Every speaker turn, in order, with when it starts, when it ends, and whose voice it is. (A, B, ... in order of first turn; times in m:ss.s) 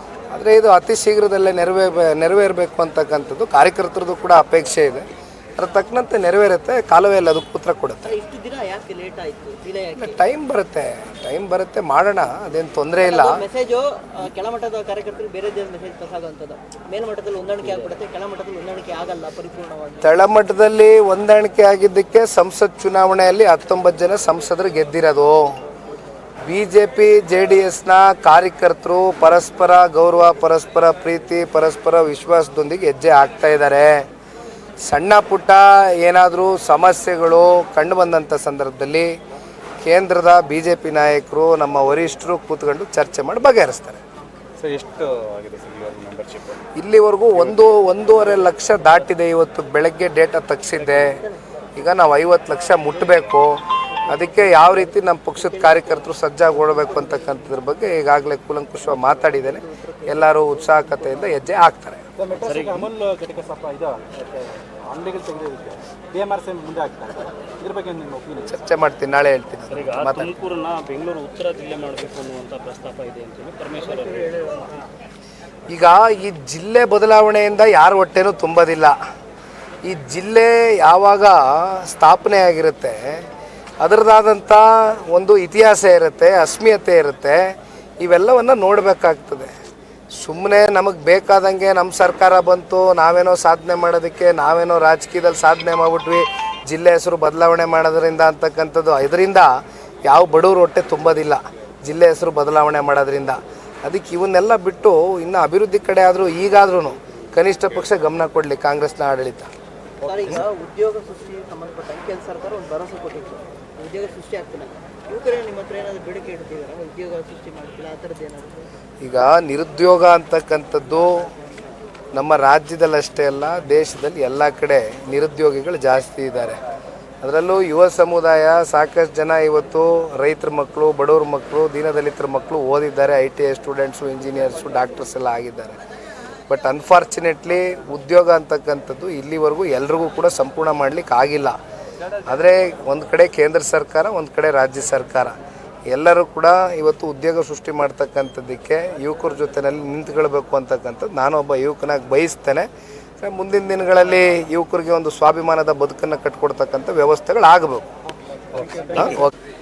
0:00.3-0:05.0 A
0:05.6-0:08.1 A
0:08.0-0:10.2 B
0:10.0-0:13.4 A
0:13.0-0:20.2 B
0:20.0-0:25.6 A
0:26.4-0:34.0 A
0:34.8-0:39.1 A
0:39.8-0:44.0 A
0:44.6-0:46.6 C
0:46.7-0:51.2 A
0:47.3-0:47.6 C
0:50.9-0:51.4 B
0:51.8-1:02.0 A
0:54.0-0:57.4 B
0:58.8-1:01.7 B
1:02.2-1:08.6 C
1:02.4-1:02.9 D
1:08.5-1:10.3 A
1:09.7-1:14.7 D
1:15.7-1:19.0 A
1:19.8-1:23.3 A
1:23.8-1:29.5 A
1:30.1-1:39.5 A
1:40.0-1:49.5 A
1:50.0-1:58.7 B
1:50.0-1:50.3 C
1:59.0-2:01.3 A
2:02.1-2:06.6 A
2:07.2-2:15.8 A
2:16.4-2:21.6 A
2:22.2-2:25.4 A
2:25.9-2:32.7 A
2:33.2-2:37.9 A
2:38.5-2:39.3 C
2:38.9-2:39.3 A